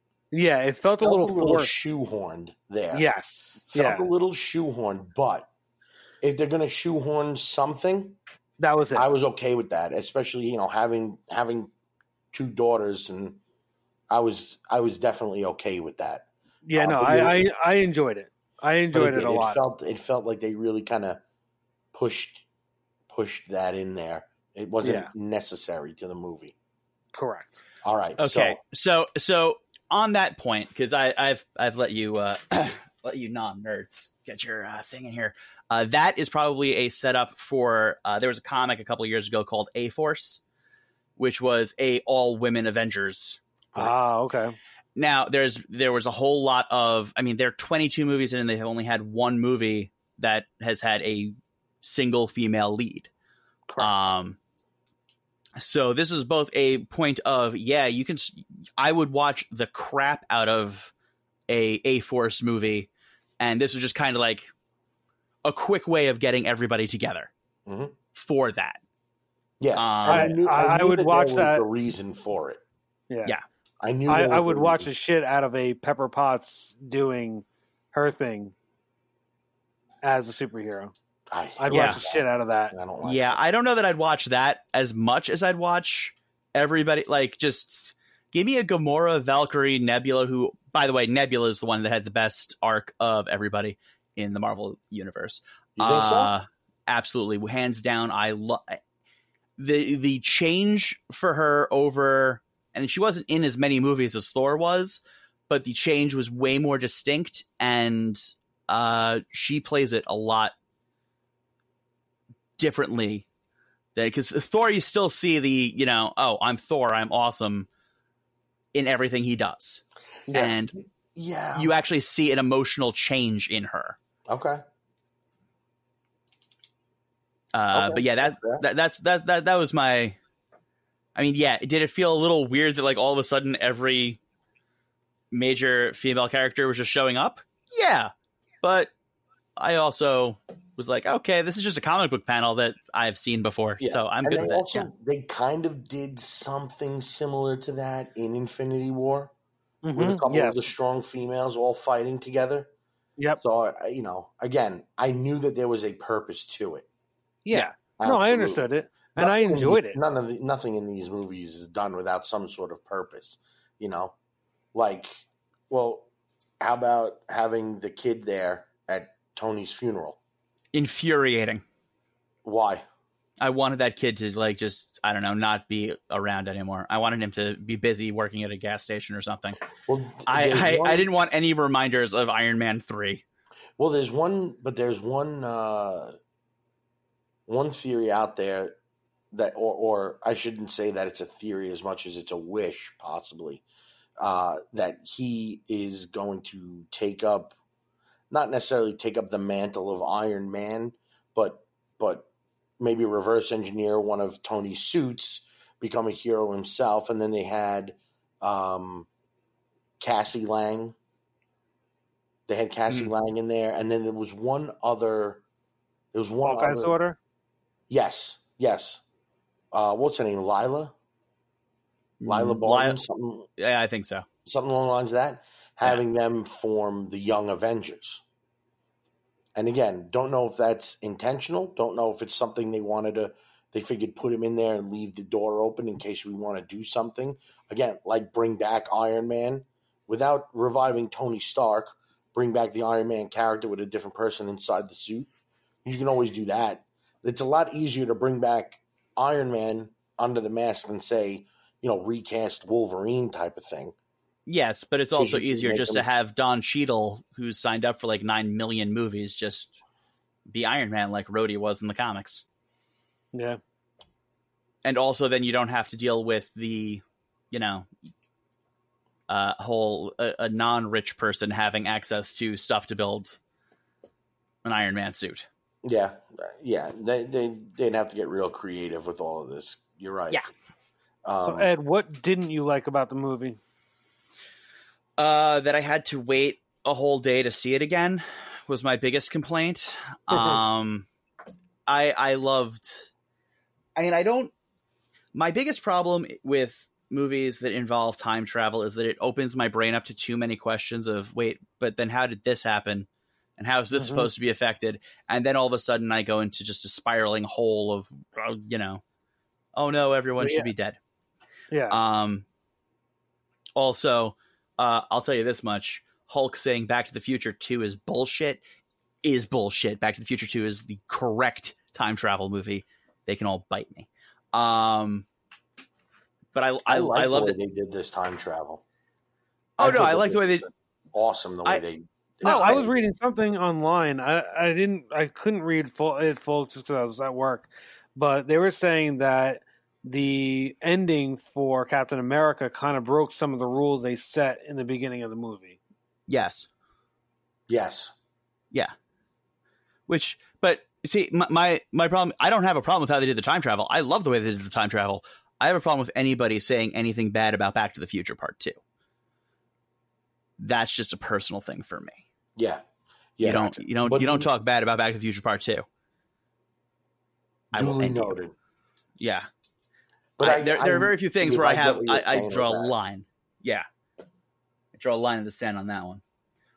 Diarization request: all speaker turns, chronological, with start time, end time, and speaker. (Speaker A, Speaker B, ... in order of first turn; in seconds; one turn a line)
Speaker A: 0.3-1.7
Speaker B: 1.0-3.0
Speaker A: 2.9-4.1
Speaker B: 3.7-5.5
Speaker B: 6.2-8.2
Speaker A: 8.6-9.1
Speaker B: 8.9-11.7
Speaker B: 12.3-13.4
Speaker B: 14.1-17.4
Speaker A: 16.6-19.6
Speaker B: 18.9-21.2
Speaker B: 21.9-22.4
Speaker B: 23.1-26.5
Speaker A: 24.8-25.1
Speaker A: 27.1-27.6
Speaker B: 27.8-28.6
Speaker C: 28.2-40.4
Speaker C: 41.2-43.4
Speaker A: 43.8-44.5
Speaker C: 45.0-53.1
Speaker A: 53.7-53.9
Speaker C: 53.8-54.4
Speaker C: 55.5-60.9
Speaker C: 61.5-64.5
Speaker C: 65.4-67.3
Speaker B: 67.7-67.9
Speaker C: 68.1-68.8
Speaker B: 69.6-72.6
Speaker C: 69.8-70.3
Speaker A: 70.0-71.6
Speaker A: 73.1-73.3
Speaker B: 73.8-74.9
Speaker A: 74.1-78.5
Speaker A: 80.0-80.9
Speaker B: 81.3-83.4
Speaker A: 81.6-82.7
Speaker C: 81.7-82.0
Speaker C: 83.0-98.8
Speaker B: 95.8-96.3
Speaker C: 99.6-110.5
Speaker C: 112.6-113.2
Speaker C: 114.0-117.7
Speaker C: 118.7-120.7
Speaker A: 120.3-120.5
Speaker B: 120.5-121.7
Speaker C: 121.5-124.0
Speaker B: 124.3-124.6
Speaker C: 127.5-130.2
Speaker B: 127.7-128.6
Speaker C: 131.1-134.2
Speaker C: 135.3-138.1
Speaker C: 138.6-138.9
Speaker C: 139.6-144.9
Speaker B: 143.8-149.3
Speaker A: 149.8-150.7
Speaker B: 149.9-152.7
Speaker B: 153.4-156.9
Speaker A: 157.4-160.0
Speaker B: 157.5-164.1
Speaker B: 164.7-166.1
Speaker B: 166.6-170.2
Speaker C: 170.7-171.6
Speaker B: 172.4-172.8
Speaker C: 173.4-179.6
Speaker B: 179.9-181.1
Speaker C: 180.3-183.2
Speaker B: 183.8-186.2
Speaker B: 187.5-188.7
Speaker B: 189.3-193.6
Speaker B: 194.2-197.6
Speaker B: 198.3-202.3
Speaker B: 202.8-209.1
Speaker B: 210.0-210.9
Speaker B: 212.5-215.4
Speaker B: 216.1-216.9
Speaker A: 216.4-217.2
Speaker B: 217.9-219.0
Speaker B: 219.7-220.9
Speaker C: 222.2-223.0
Speaker B: 222.2-223.5
Speaker C: 223.6-224.2
Speaker B: 224.4-228.2
Speaker B: 229.6-245.3
Speaker B: 245.8-253.9
Speaker C: 254.5-259.8
Speaker B: 255.2-256.0
Speaker C: 260.5-262.4
Speaker A: 263.3-263.6
Speaker C: 264.8-267.9
Speaker C: 269.3-273.4
Speaker C: 274.6-275.5
Speaker B: 275.8-280.4
Speaker B: 281.2-281.7
Speaker A: 281.4-283.6
Speaker C: 285.2-291.1
Speaker A: 290.3-290.6
Speaker C: 291.9-293.1
Speaker C: 293.9-294.5
Speaker C: 295.3-303.1
Speaker C: 303.6-309.0
Speaker A: 303.9-304.3
Speaker C: 309.7-311.0
Speaker A: 310.4-310.7
Speaker A: 311.7-312.0
Speaker C: 311.9-312.4
Speaker C: 313.8-318.6
Speaker C: 319.2-325.2
Speaker C: 326.5-327.6
Speaker B: 326.9-328.8
Speaker C: 329.8-330.6
Speaker B: 329.8-332.9
Speaker A: 332.4-345.8
Speaker C: 332.4-332.8
Speaker C: 346.3-346.7
Speaker B: 347.7-348.1
Speaker C: 350.1-358.8
Speaker C: 360.6-362.2
Speaker B: 362.6-362.8
Speaker B: 363.4-364.5
Speaker C: 363.4-365.9
Speaker C: 367.7-368.4
Speaker B: 367.7-368.5
Speaker C: 369.2-369.5
Speaker B: 370.4-372.9
Speaker C: 370.4-373.9
Speaker C: 374.9-376.2